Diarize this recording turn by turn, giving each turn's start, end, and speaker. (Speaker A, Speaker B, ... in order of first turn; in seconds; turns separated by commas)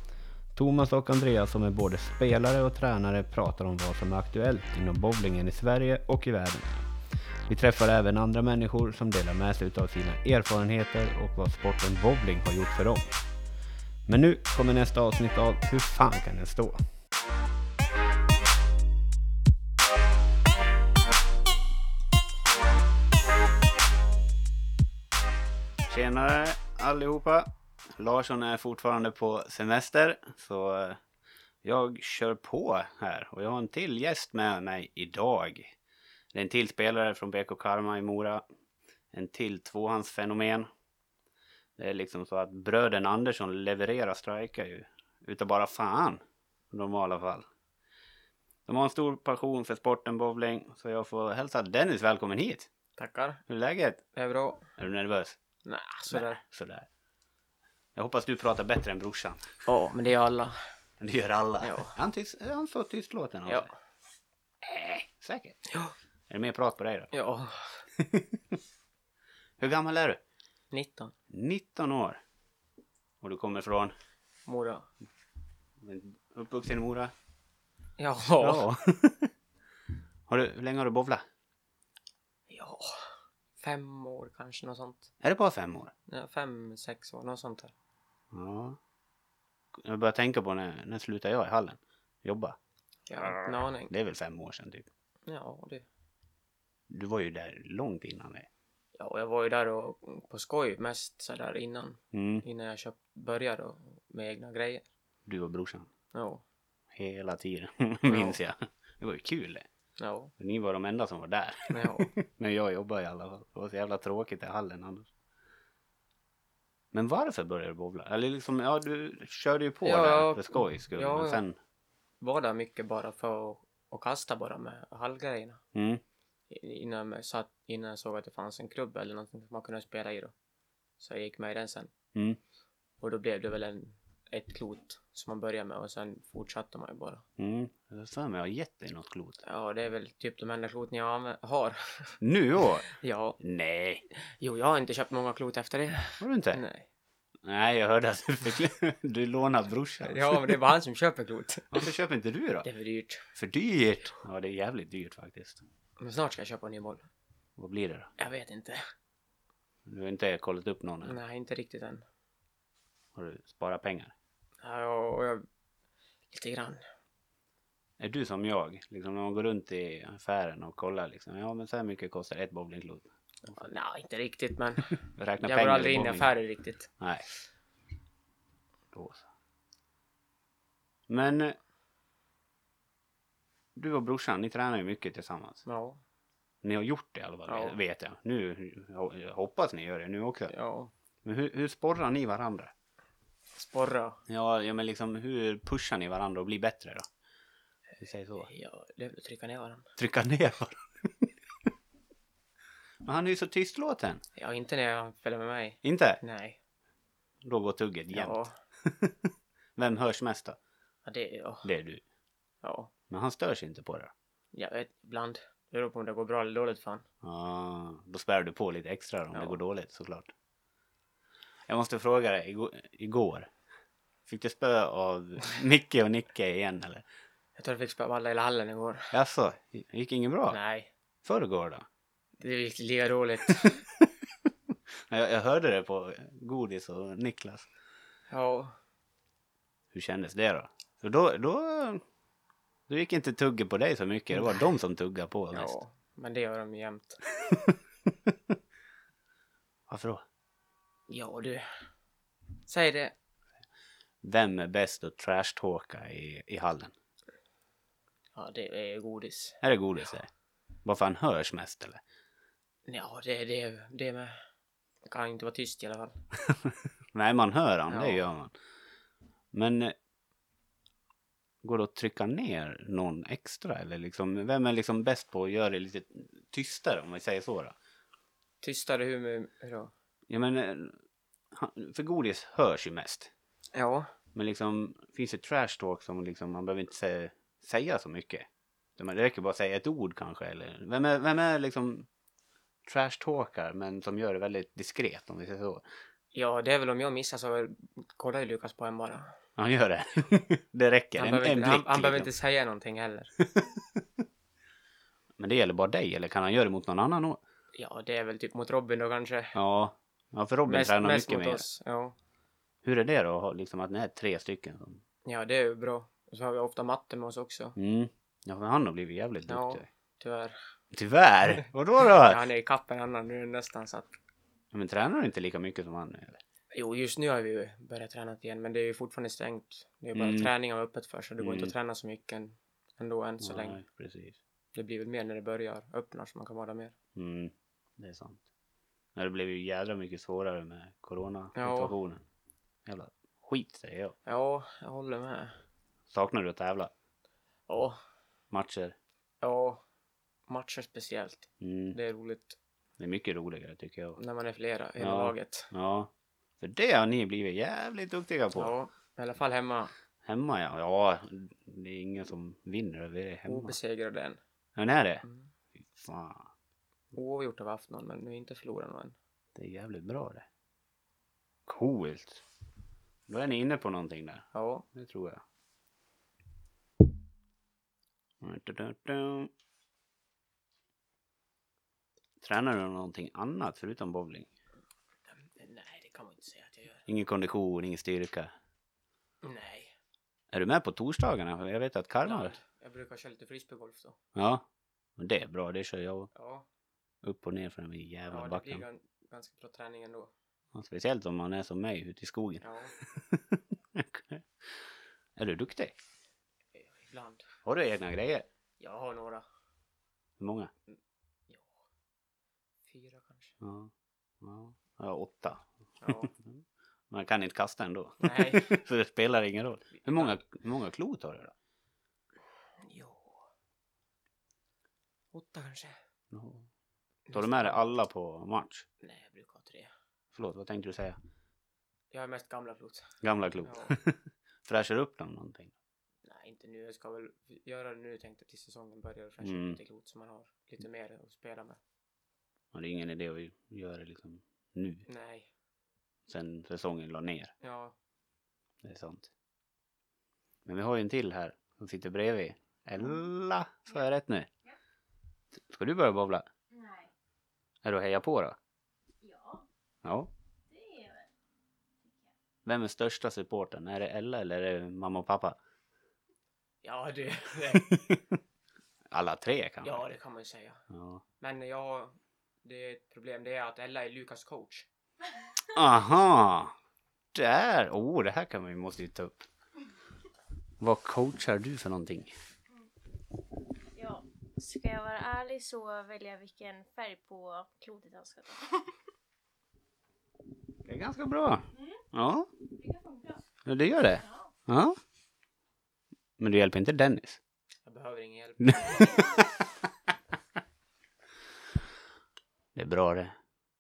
Speaker A: 0.6-6.9, Speaker A: 7.5-13.2, Speaker A: 14.1-16.8, Speaker A: 25.9-31.0, Speaker A: 31.6-35.8, Speaker A: 36.3-38.4, Speaker A: 39.1-40.7, Speaker A: 41.8-47.5, Speaker A: 48.7-52.7, Speaker B: 53.0-53.4, Speaker A: 53.5-54.0, Speaker B: 54.1-54.7, Speaker A: 54.8-55.4, Speaker B: 55.6-56.4, Speaker A: 56.1-56.9, Speaker A: 58.0-59.6, Speaker B: 59.7-60.6, Speaker A: 61.0-63.7, Speaker B: 61.6-62.0, Speaker B: 63.5-63.8, Speaker A: 64.6-65.6, Speaker B: 65.7-65.9, Speaker A: 66.3-67.1, Speaker B: 67.1-67.9, Speaker A: 68.0-68.4, Speaker A: 69.6-70.2, Speaker B: 70.7-71.1, Speaker A: 71.3-72.2, Speaker A: 73.2-74.0, Speaker B: 74.5-74.9, Speaker A: 75.8-77.1, Speaker B: 78.0-78.7, Speaker A: 78.4-79.3, Speaker A: 80.3-81.2, Speaker B: 82.5-85.1, Speaker A: 85.2-85.9, Speaker B: 86.1-87.7, Speaker A: 88.3-88.8, Speaker A: 89.8-92.6, Speaker B: 93.1-93.9, Speaker A: 93.1-94.9, Speaker B: 95.3-95.9, Speaker A: 96.9-98.5, Speaker B: 99.0-104.9, Speaker A: 102.1-102.5, Speaker A: 105.3-105.9, Speaker B: 106.1-106.4, Speaker A: 106.9-109.7, Speaker B: 108.0-108.4, Speaker B: 110.0-110.3, Speaker A: 110.4-115.1, Speaker B: 111.7-112.2, Speaker A: 116.9-121.6, Speaker B: 119.8-121.4, Speaker B: 122.2-125.6, Speaker A: 125.7-126.0, Speaker B: 126.5-130.3, Speaker B: 131.0-131.9, Speaker B: 133.0-137.2, Speaker A: 137.4-139.4, Speaker B: 139.4-143.4, Speaker A: 142.2-142.9, Speaker A: 143.4-144.0, Speaker B: 144.2-146.9, Speaker A: 146.2-146.6, Speaker A: 147.4-150.6, Speaker B: 150.0-151.8, Speaker A: 151.7-152.7, Speaker B: 152.6-153.3, Speaker A: 153.3-155.6, Speaker B: 156.0-157.1, Speaker A: 157.6-158.1, Speaker B: 158.2-158.8, Speaker A: 159.9-161.2, Speaker B: 161.0-162.1, Speaker A: 163.2-164.1, Speaker B: 164.6-165.4, Speaker B: 166.3-166.8, Speaker A: 168.0-173.6, Speaker B: 173.5-176.9, Speaker A: 175.1-176.3, Speaker A: 177.0-177.2, Speaker A: 178.9-179.3, Speaker A: 181.1-181.6, Speaker A: 183.8-185.6, Speaker B: 185.7-186.0, Speaker A: 186.6-190.5, Speaker B: 187.5-187.8, Speaker B: 190.5-190.9, Speaker A: 191.2-192.7, Speaker B: 193.6-194.2, Speaker A: 194.3-197.1, Speaker A: 198.0-198.5, Speaker B: 198.4-199.9, Speaker A: 200.0-201.3, Speaker A: 203.0-204.2, Speaker B: 204.4-206.6, Speaker A: 205.8-206.2, Speaker A: 207.4-209.2, Speaker B: 208.1-208.6, Speaker A: 209.8-210.6, Speaker B: 211.1-211.7, Speaker A: 211.6-212.0, Speaker B: 212.6-212.9, Speaker A: 213.1-214.1, Speaker B: 214.5-217.1, Speaker A: 217.2-220.3, Speaker A: 221.7-223.5, Speaker A: 224.3-227.1, Speaker B: 227.6-229.1, Speaker A: 229.1-230.6, Speaker B: 230.5-230.9, Speaker A: 231.2-231.9, Speaker B: 232.4-233.8, Speaker A: 234.7-237.7, Speaker B: 238.3-238.8, Speaker A: 239.9-242.0, Speaker A: 242.9-245.8, Speaker B: 244.3-244.7, Speaker B: 245.5-247.2, Speaker A: 247.5-247.8, Speaker A: 249.9-250.2, Speaker B: 251.1-251.9, Speaker B: 252.7-253.1, Speaker A: 254.2-256.9, Speaker B: 258.4-259.6, Speaker A: 259.6-260.3, Speaker A: 260.8-262.0, Speaker B: 262.9-264.4, Speaker B: 265.1-266.2, Speaker A: 266.5-268.5, Speaker B: 267.9-268.3, Speaker A: 269.5-270.0, Speaker A: 271.6-277.8, Speaker B: 278.6-279.9, Speaker A: 280.3-281.0, Speaker A: 281.5-283.3, Speaker B: 283.7-284.1, Speaker A: 284.3-292.1, Speaker A: 292.9-295.8, Speaker B: 296.3-299.4, Speaker A: 299.6-302.3, Speaker B: 301.2-303.3, Speaker A: 303.4-304.2, Speaker A: 305.4-307.4, Speaker B: 307.7-309.6, Speaker A: 309.5-311.6, Speaker B: 310.7-312.1, Speaker A: 312.8-315.0, Speaker B: 315.3-317.8, Speaker A: 317.8-319.9, Speaker B: 319.5-320.6, Speaker A: 320.9-322.4, Speaker B: 322.1-324.1, Speaker A: 324.7-326.4, Speaker B: 326.7-333.8, Speaker A: 330.1-330.5, Speaker A: 331.4-331.8, Speaker A: 333.4-334.4, Speaker B: 334.8-336.9, Speaker A: 337.1-338.4, Speaker A: 339.1-342.2, Speaker B: 341.6-342.0, Speaker A: 342.9-344.2, Speaker B: 344.3-345.6, Speaker A: 346.1-346.9, Speaker B: 347.7-348.0, Speaker A: 348.5-348.9, Speaker B: 349.4-349.8, Speaker B: 350.5-352.6, Speaker A: 351.6-352.0, Speaker A: 353.0-354.2, Speaker B: 354.2-355.7, Speaker A: 355.0-358.8, Speaker B: 358.6-359.9, Speaker A: 360.2-363.8, Speaker B: 363.5-364.4, Speaker A: 364.8-365.2, Speaker B: 365.2-365.5, Speaker A: 365.8-366.5, Speaker B: 367.1-369.2, Speaker A: 369.6-370.5, Speaker A: 371.7-372.4, Speaker A: 373.3-375.4, Speaker B: 374.5-374.9, Speaker A: 378.4-379.5, Speaker A: 382.4-384.5, Speaker B: 385.3-387.1, Speaker A: 387.1-388.5, Speaker B: 389.4-389.9, Speaker A: 390.5-392.6, Speaker B: 392.2-394.2, Speaker A: 394.4-394.7, Speaker A: 395.2-396.3, Speaker B: 396.3-396.7, Speaker A: 397.2-398.9, Speaker B: 398.3-400.3, Speaker A: 400.7-404.8, Speaker B: 402.6-402.9, Speaker A: 405.4-405.9, Speaker B: 406.7-407.5, Speaker A: 407.6-408.5, Speaker B: 408.8-409.5, Speaker A: 410.4-410.7, Speaker B: 411.5-411.8, Speaker B: 412.9-413.6, Speaker A: 413.6-421.5, Speaker B: 416.0-416.3, Speaker B: 418.2-418.9, Speaker B: 419.9-420.4, Speaker B: 422.8-423.4, Speaker B: 425.3-426.0, Speaker A: 426.3-426.7, Speaker B: 427.3-427.9, Speaker A: 427.3-428.9, Speaker B: 429.0-429.9, Speaker A: 430.3-431.2, Speaker B: 432.1-434.0, Speaker A: 433.2-435.7, Speaker B: 436.2-441.8, Speaker A: 439.4-439.8, Speaker A: 442.7-445.1, Speaker B: 445.1-445.5, Speaker A: 446.3-447.5, Speaker B: 447.6-447.9, Speaker A: 448.8-449.3, Speaker A: 450.6-454.5, Speaker A: 455.5-456.5, Speaker C: 456.7-457.1, Speaker A: 457.8-458.6, Speaker C: 459.2-459.7, Speaker A: 460.0-460.3, Speaker C: 460.7-461.3, Speaker C: 462.0-462.3, Speaker A: 462.6-465.6, Speaker B: 466.8-468.2, Speaker A: 467.7-468.2, Speaker A: 469.1-470.1, Speaker B: 469.8-470.8, Speaker A: 470.9-471.2, Speaker B: 471.4-474.9, Speaker A: 475.7-476.8, Speaker A: 477.3-479.4, Speaker A: 480.8-482.3, Speaker C: 483.9-488.9, Speaker A: 490.9-492.5, Speaker C: 491.8-492.0, Speaker C: 492.7-493.4, Speaker A: 493.7-495.0, Speaker C: 494.0-494.5, Speaker A: 496.4-497.4, Speaker B: 497.9-499.3, Speaker A: 498.6-499.5, Speaker A: 502.8-503.4